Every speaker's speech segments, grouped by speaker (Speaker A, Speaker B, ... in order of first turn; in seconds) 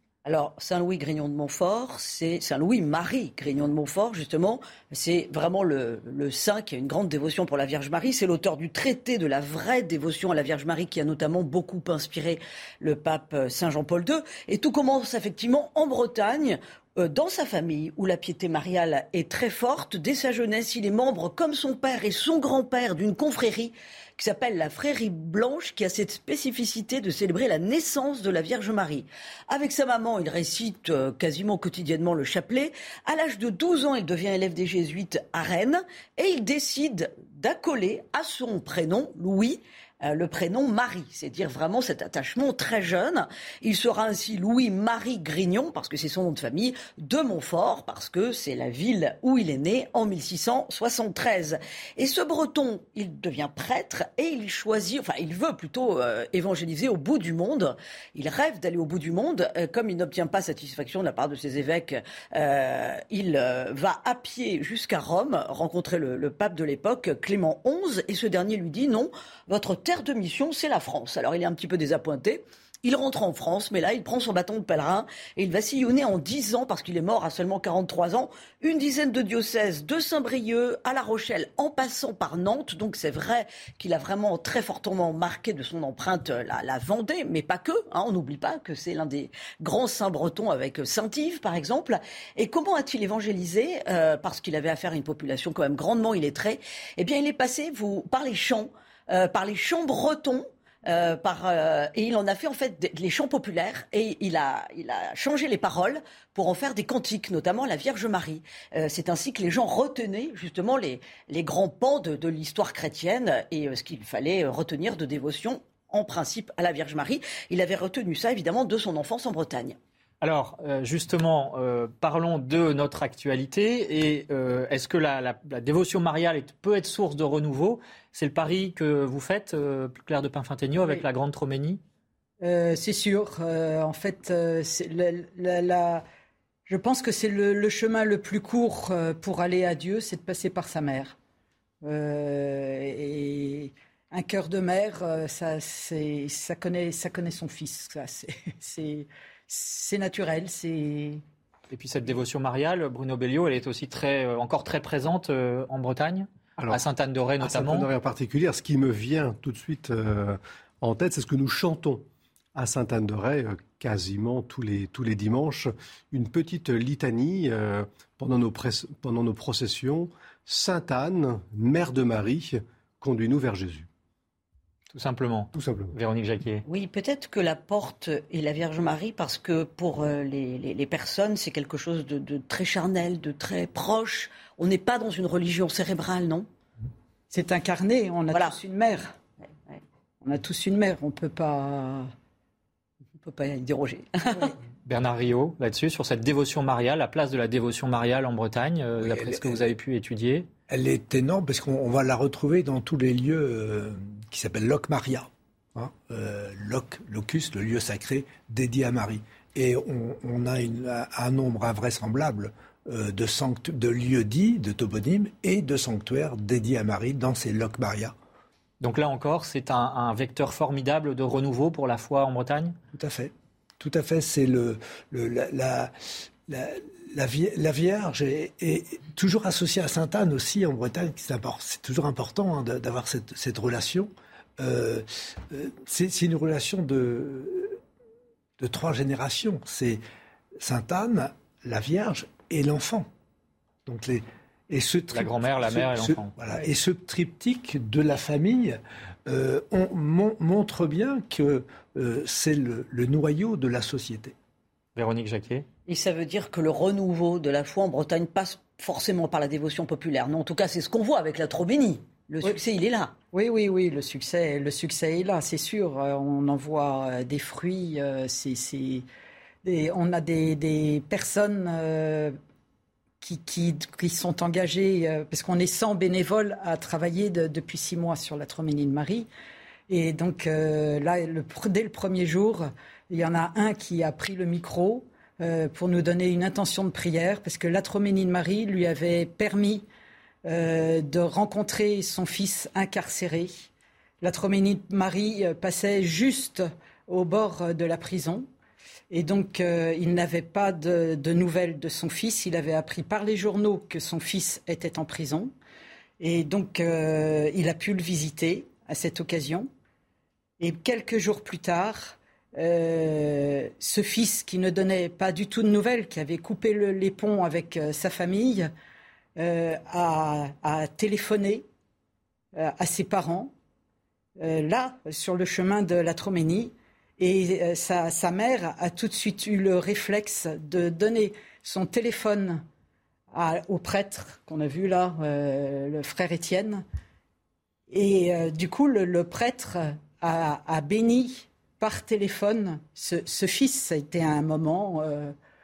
Speaker A: 0.2-119.8, 176.7-186.5, 193.2-194.5, 255.9-263.1
Speaker B: 120.2-131.8, 151.7-157.9, 174.9-176.6, 194.8-200.5, 218.8-222.8, 245.1-246.3, 254.9-255.6
Speaker C: 132.4-136.0, 136.7-141.2, 141.8-151.2, 187.3-189.1, 190.2-192.1, 263.3-269.0, 269.6-272.3, 273.2-279.3, 279.9-289.8, 290.4-293.7, 294.2-298.4, 299.1-305.5, 306.2-309.7, 310.6-318.7, 319.4-321.6, 322.5-323.5, 324.4-332.6, 333.3-336.8, 337.9-345.3
Speaker D: 156.6-156.8, 157.4-162.0, 162.5-173.9, 175.5-175.9
Speaker E: 199.0-199.7, 200.7-218.1, 222.9-237.8, 238.6-240.0, 240.6-243.1, 243.8-254.3